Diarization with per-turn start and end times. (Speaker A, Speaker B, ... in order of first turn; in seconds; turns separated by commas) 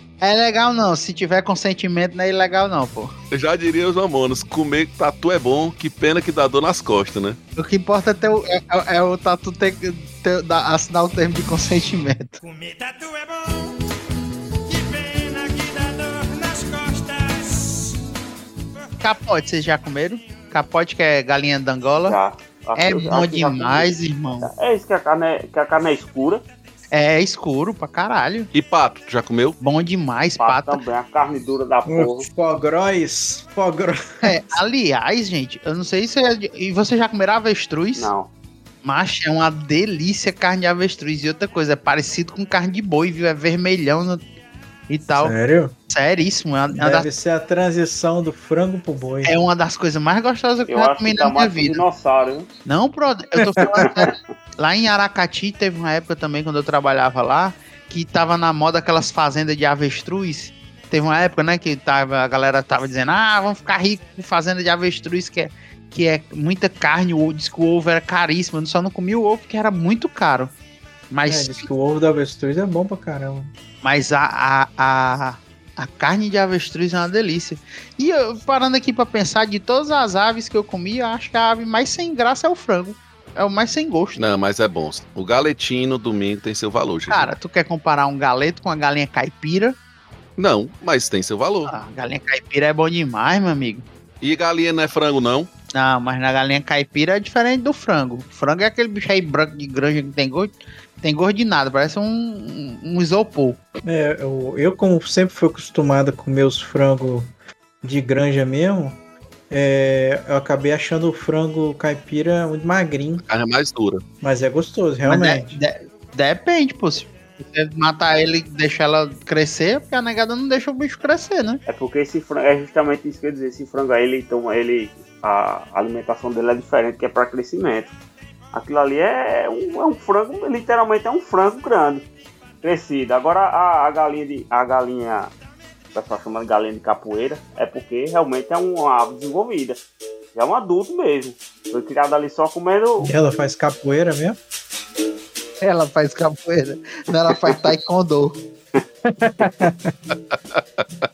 Speaker A: 0.2-3.1, Speaker B: 3.3-7.4, Speaker A: 7.6-12.4, Speaker C: 12.5-13.2, Speaker C: 15.1-17.2, Speaker A: 19.0-22.2, Speaker D: 22.0-26.4, Speaker A: 22.8-24.5, Speaker A: 26.9-28.5, Speaker B: 28.5-29.6, Speaker A: 29.6-30.8, Speaker D: 30.4-32.3, Speaker E: 31.9-34.5, Speaker A: 34.2-38.1, Speaker D: 38.0-38.3, Speaker A: 38.8-44.2, Speaker A: 44.9-45.3, Speaker E: 45.1-45.7, Speaker A: 45.9-47.1, Speaker E: 46.7-49.3, Speaker A: 49.2-51.8, Speaker D: 50.7-52.5, Speaker A: 52.6-70.5, Speaker E: 53.5-54.0, Speaker A: 71.1-71.7, Speaker E: 71.3-73.5, Speaker A: 73.8-84.2, Speaker B: 84.2-87.3, Speaker A: 87.1-89.7, Speaker B: 90.4-91.7, Speaker A: 91.7-93.8, Speaker B: 94.2-95.5, Speaker A: 95.7-103.6, Speaker E: 103.8-107.3, Speaker E: 107.8-109.0, Speaker E: 109.5-113.2, Speaker B: 113.3-114.0, Speaker E: 114.2-115.6, Speaker A: 115.0-121.6, Speaker D: 121.7-127.9, Speaker D: 128.5-132.0, Speaker D: 132.6-135.3, Speaker D: 135.9-139.8, Speaker D: 140.3-143.1, Speaker E: 143.0-144.4, Speaker A: 145.6-148.4, Speaker E: 149.1-149.9, Speaker B: 150.5-150.8